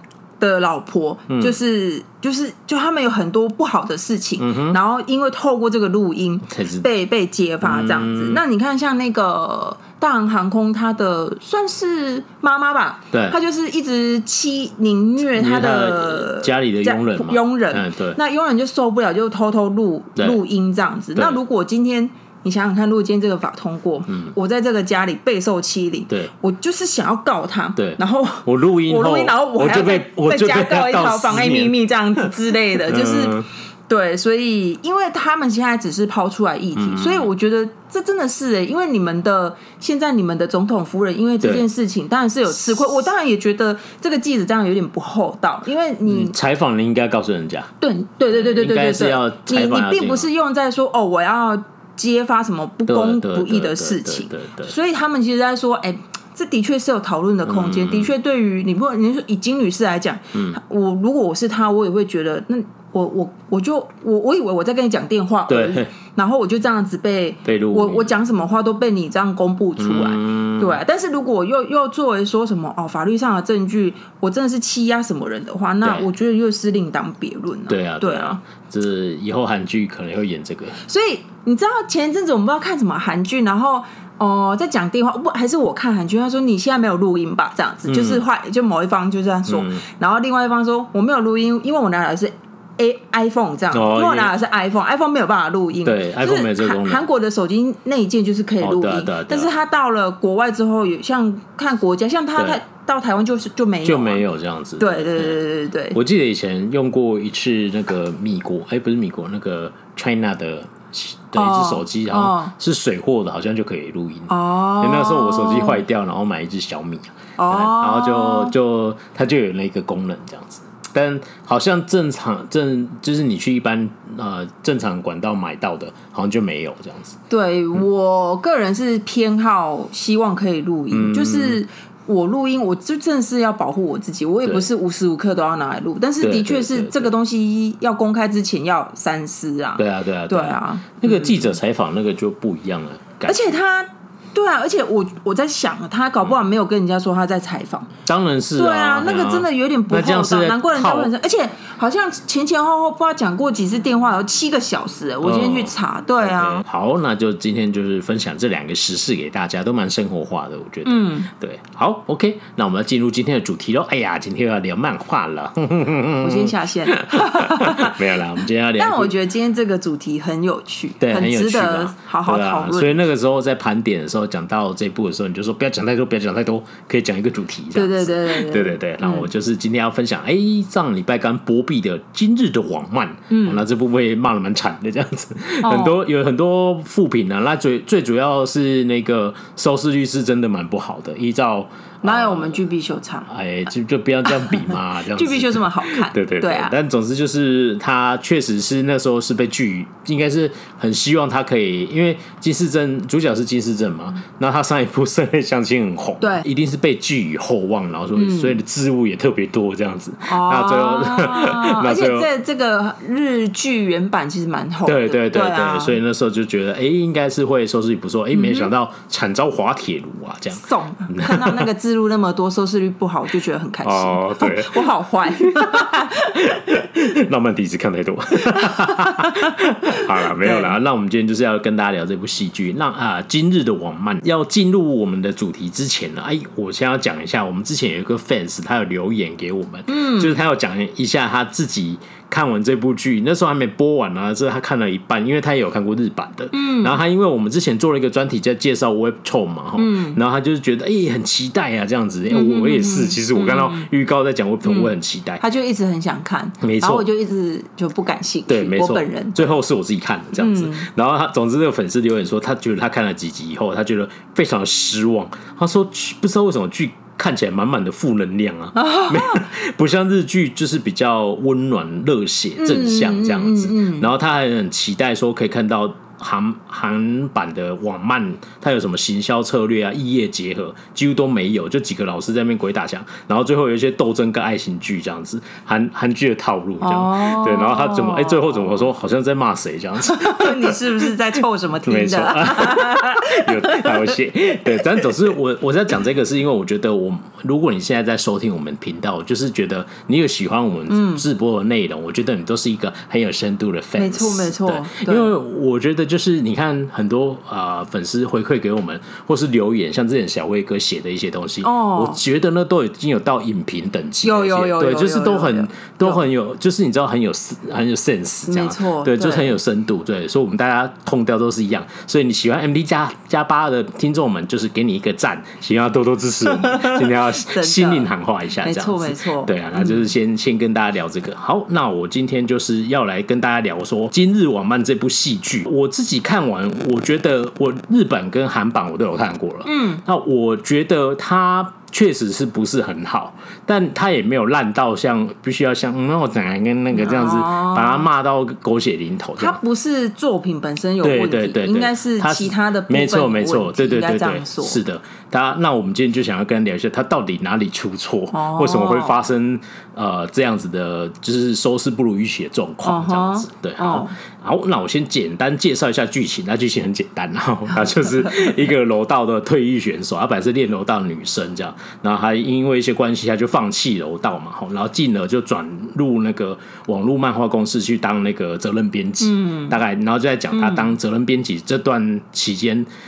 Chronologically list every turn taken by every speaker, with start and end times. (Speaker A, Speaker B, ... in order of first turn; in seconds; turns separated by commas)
Speaker A: 0.4-46.4, Speaker B: 1.3-1.6, Speaker B: 4.4-4.8, Speaker B: 6.5-6.9, Speaker B: 7.6-8.4, Speaker B: 13.1-13.4, Speaker B: 15.4-18.2, Speaker B: 27.8-33.5, Speaker B: 36.8-37.3, Speaker B: 41.4-41.7, Speaker B: 46.1-47.7, Speaker A: 47.8-78.4, Speaker B: 48.3-50.3, Speaker B: 52.9-54.7, Speaker B: 57.5-58.1, Speaker B: 65.5-65.9, Speaker B: 67.5-68.1, Speaker B: 69.8-70.8, Speaker B: 77.7-80.8, Speaker A: 80.9-104.2, Speaker B: 87.9-88.2, Speaker B: 89.5-89.8, Speaker B: 93.7-94.3, Speaker B: 95.8-97.0, Speaker B: 98.6-99.5, Speaker B: 103.8-105.4, Speaker A: 104.8-106.0, Speaker B: 105.9-127.2, Speaker A: 111.3-112.5, Speaker A: 114.3-115.8, Speaker A: 117.4-118.5, Speaker A: 127.3-141.5, Speaker B: 130.9-131.6, Speaker B: 136.2-137.1, Speaker B: 139.8-143.6, Speaker A: 143.3-147.9, Speaker B: 148.1-151.1, Speaker A: 148.6-156.6, Speaker B: 155.2-169.1, Speaker A: 160.8-161.3, Speaker A: 166.2-168.1, Speaker A: 168.8-173.0, Speaker B: 171.0-192.6, Speaker A: 177.8-179.3, Speaker A: 183.3-183.6, Speaker A: 185.6-186.0, Speaker A: 192.0-193.3, Speaker B: 193.3-212.3, Speaker A: 194.3-196.7, Speaker A: 206.2-206.5, Speaker A: 208.2-208.6, Speaker A: 210.2-216.0, Speaker B: 214.8-221.7, Speaker A: 218.3-218.7, Speaker A: 220.6-226.4, Speaker B: 223.8-255.4, Speaker A: 228.6-230.8, Speaker A: 239.9-240.4, Speaker A: 246.5-247.0, Speaker A: 249.8-250.2, Speaker A: 252.3-253.9, Speaker A: 254.7-259.4, Speaker B: 256.6-257.1, Speaker B: 258.5-291.1, Speaker A: 260.4-260.9, Speaker A: 268.8-269.4, Speaker A: 272.6-274.1, Speaker A: 286.8-288.8, Speaker A: 290.1-294.2, Speaker B: 291.9-349.6, Speaker A: 294.7-295.1, Speaker A: 300.9-301.2, Speaker A: 304.0-305.3, Speaker A: 311.6-312.2, Speaker A: 314.2-316.2, Speaker A: 318.5-319.6, Speaker A: 326.4-328.1, Speaker A: 328.6-330.0, Speaker A: 339.6-340.0, Speaker A: 346.9-348.1, Speaker A: 349.4-354.8, Speaker B: 351.0-382.9, Speaker A: 358.3-359.2, Speaker A: 362.8-364.1, Speaker A: 368.0-368.5, Speaker A: 379.2-379.8, Speaker A: 380.5-380.9